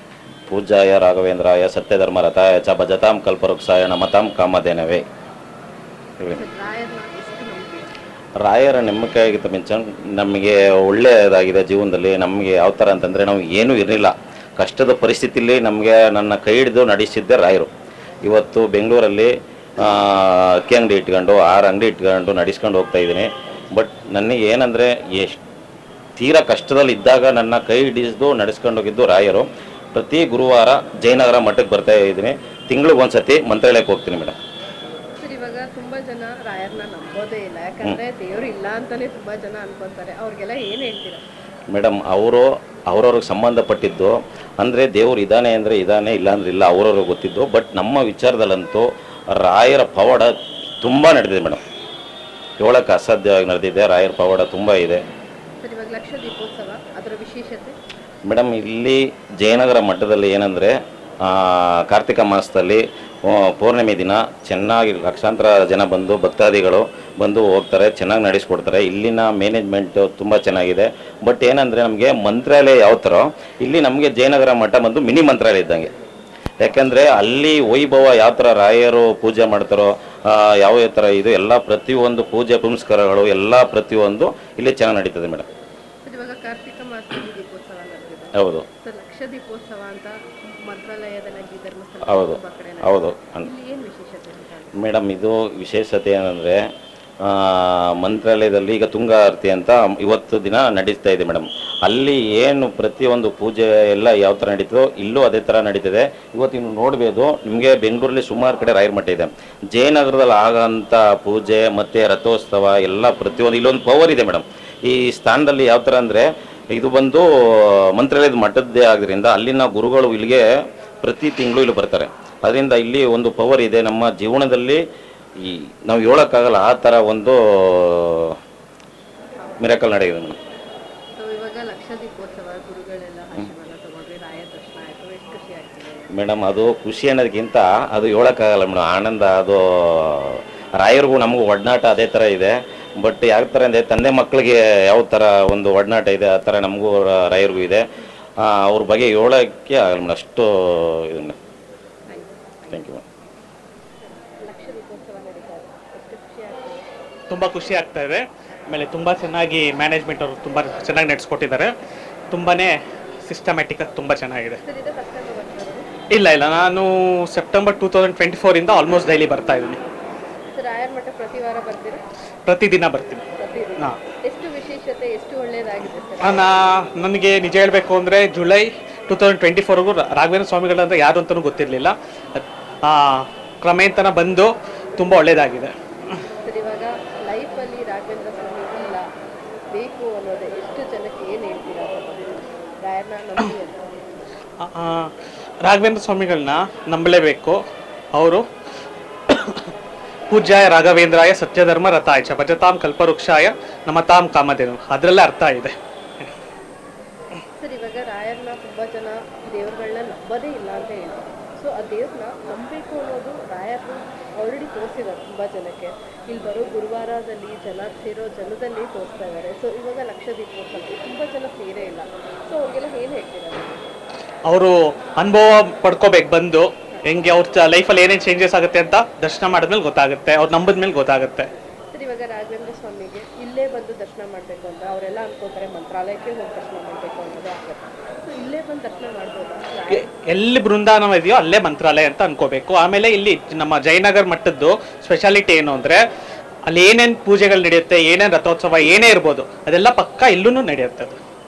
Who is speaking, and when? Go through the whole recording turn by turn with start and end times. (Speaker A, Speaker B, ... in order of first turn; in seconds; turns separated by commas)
Speaker A: 0.5-5.0, Speaker B: 6.3-7.9, Speaker A: 8.4-17.7, Speaker A: 18.2-25.4, Speaker A: 26.2-34.4, Speaker B: 35.2-41.2, Speaker A: 41.7-51.6, Speaker A: 52.6-55.0, Speaker B: 55.6-57.8, Speaker A: 58.3-75.9, Speaker A: 76.6-85.5, Speaker B: 86.0-94.7, Speaker A: 88.3-88.7, Speaker A: 92.0-93.5, Speaker A: 94.7-96.7, Speaker A: 97.2-120.5, Speaker A: 121.0-124.8, Speaker A: 125.4-128.4, Speaker A: 129.6-130.4, Speaker B: 131.2-136.1, Speaker A: 136.1-147.8, Speaker A: 148.4-151.3, Speaker B: 152.1-152.9, Speaker A: 152.7-153.0, Speaker B: 154.4-156.9, Speaker C: 157.3-161.7, Speaker C: 162.3-164.6, Speaker B: 164.6-165.9, Speaker C: 166.1-169.8, Speaker B: 170.5-172.0, Speaker C: 172.4-173.2, Speaker B: 173.3-176.5, Speaker C: 176.2-185.7, Speaker B: 186.4-189.1, Speaker B: 189.7-193.8, Speaker C: 194.6-195.1, Speaker C: 195.6-197.6, Speaker C: 198.1-198.4, Speaker C: 199.3-199.7, Speaker C: 200.3-205.7, Speaker B: 207.6-223.8, Speaker C: 224.4-231.5, Speaker B: 231.9-240.1, Speaker C: 239.9-246.0, Speaker C: 246.7-251.2